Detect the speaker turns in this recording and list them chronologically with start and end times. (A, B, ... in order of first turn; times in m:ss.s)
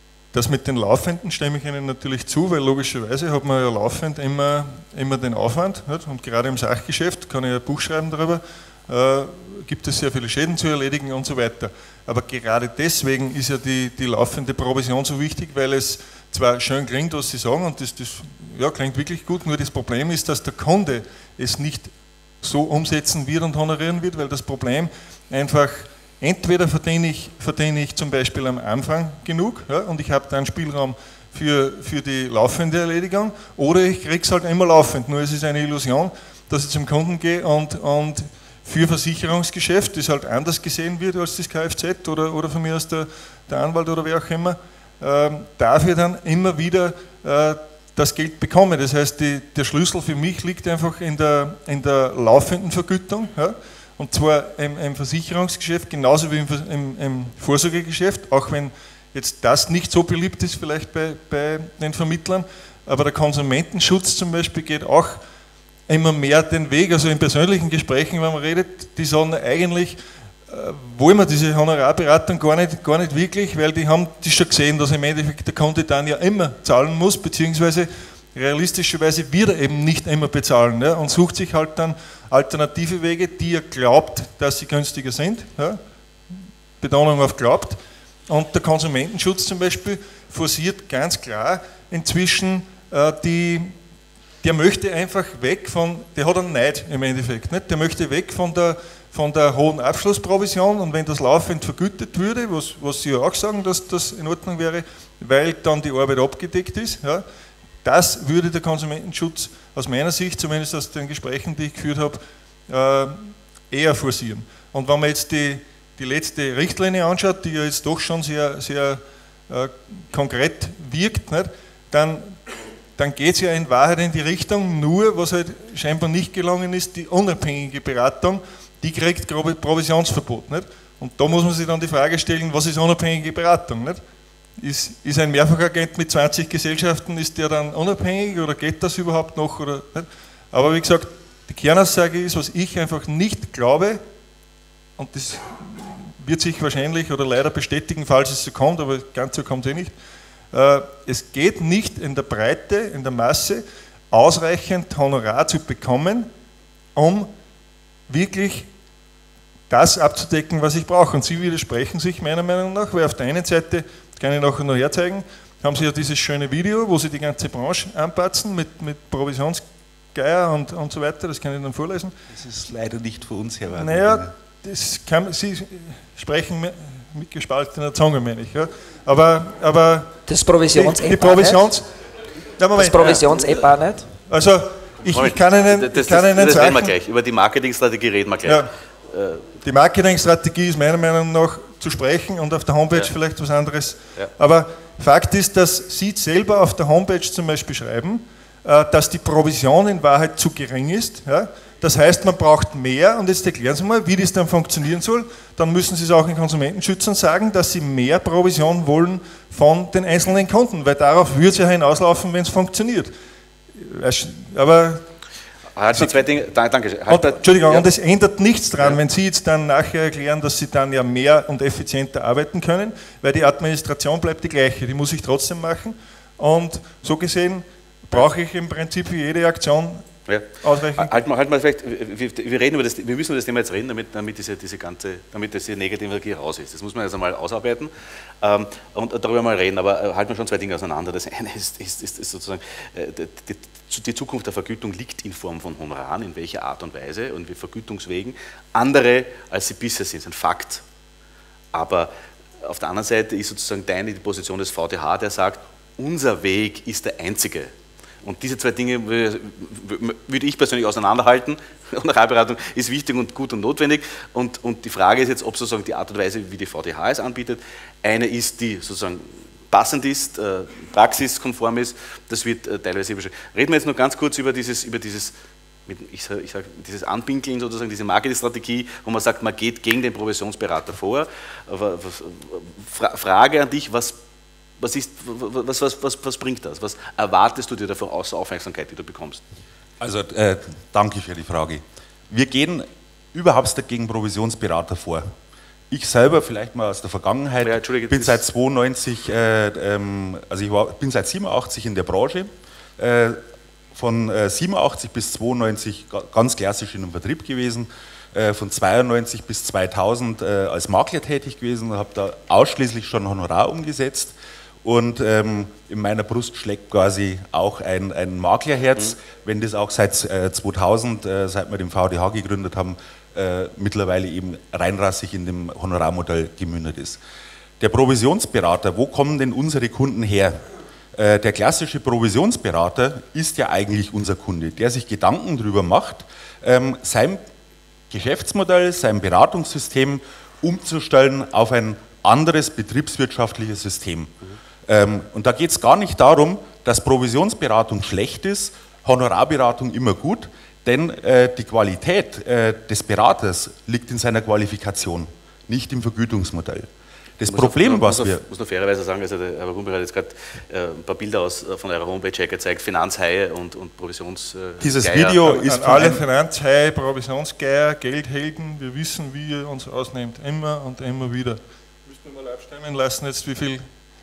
0:00.3-1:05.2 A
1:05.9-1:10.0 A
1:10.5-1:25.8 A
1:26.8-1:33.8 A
1:34.4-1:47.2 A
1:47.8-2:02.4 A
2:03.0-2:14.0 A
2:14.6-2:24.0 A
2:25.0-2:29.9 A
2:30.5-2:36.3 A
2:36.9-2:37.3 A
2:38.1-2:38.7 A
2:39.7-2:52.2 A
2:52.3-2:54.3 B
2:53.7-3:00.2 A
3:00.3-3:01.6 C
3:00.8-3:01.9 A
3:02.6-3:03.2 A
3:02.8-3:04.1 C
3:04.3-3:06.9 A
3:05.0-3:09.4 D
3:09.6-3:33.1 A
3:33.8-3:35.0 A
3:35.8-3:37.9 D
3:37.1-3:50.1 A
3:50.3-3:57.9 D
3:50.6-3:51.2 A
3:58.4-4:10.8 D
4:11.7-4:12.1 D
4:12.6-4:17.7 D
4:18.2-4:35.3 D
4:35.9-4:44.2 D
4:44.8-4:49.4 D
4:50.0-4:55.3 B
4:55.9-5:03.4 B
4:57.6-4:58.4 D
5:03.9-5:27.2 B
5:27.8-5:30.6 B
5:31.2-5:37.4 B
5:38.1-5:44.3 B
5:44.9-5:56.9 B
5:57.4-5:58.4 B
5:57.4-6:05.4 D
6:04.8-6:06.3 B
6:05.4-6:13.8 A